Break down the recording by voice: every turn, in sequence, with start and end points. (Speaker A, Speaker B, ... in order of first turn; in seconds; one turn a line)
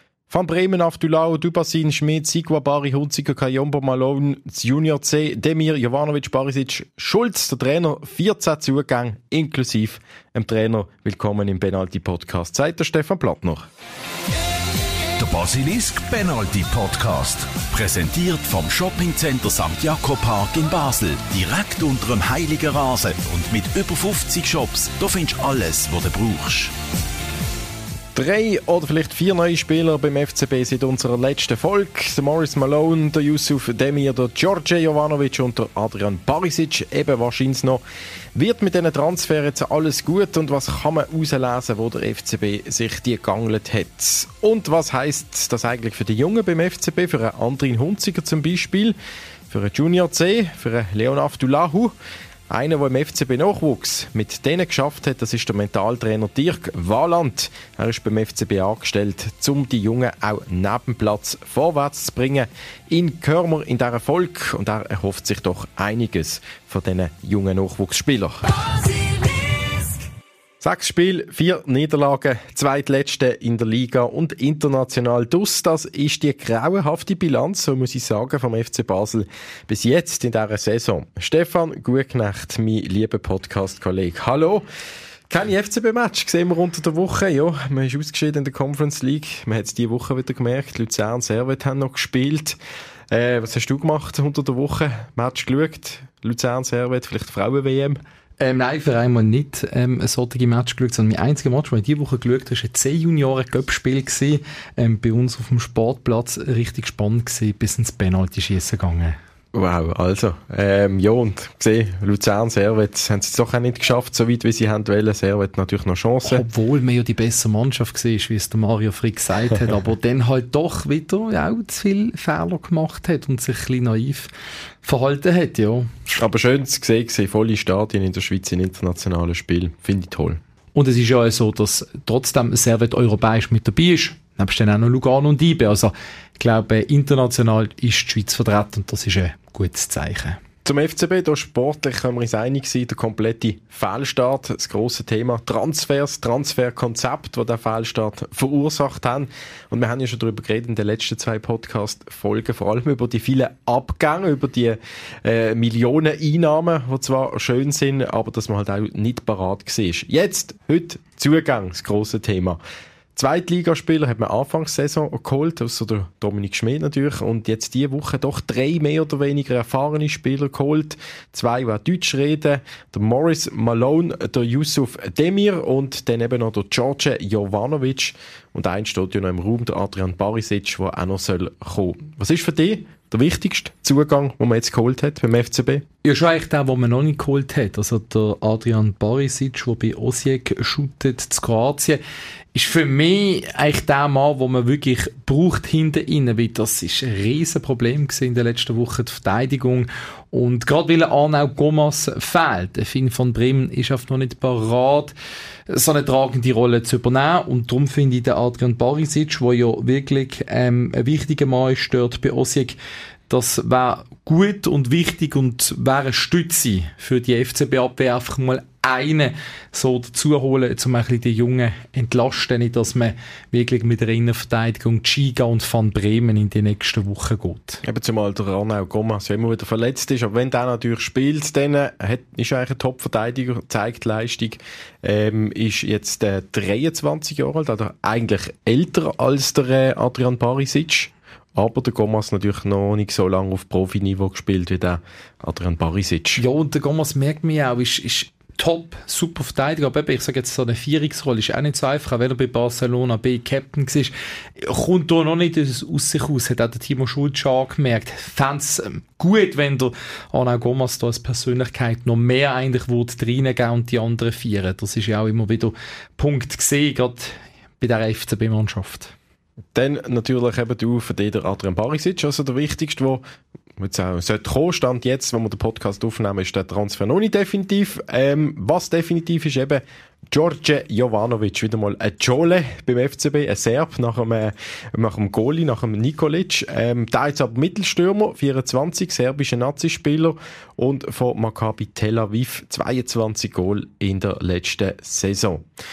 Speaker A: 0.3-13.7
Speaker B: 15.2-26.7
Speaker A: 28.1-37.8
Speaker A: 38.4-49.0
Speaker A: 49.5-51.9
Speaker A: 52.5-68.6
Speaker A: 70.6-84.6
Speaker A: 85.3-92.6
Speaker A: 93.1-98.0
Speaker C: 98.4-109.2
Speaker A: 109.5-116.4
Speaker C: 116.3-124.3
Speaker C: 124.8-125.9
Speaker A: 126.2-130.4
Speaker C: 130.8-140.4
Speaker A: 140.7-162.6
Speaker A: 163.2-185.8
Speaker C: 186.1-192.0
Speaker C: 192.5-205.1
Speaker C: 205.7-212.8
Speaker C: 213.3-227.8
Speaker A: 227.8-246.4
Speaker C: 246.4-269.1
Speaker A: 269.8-273.2
Speaker A: 273.8-295.7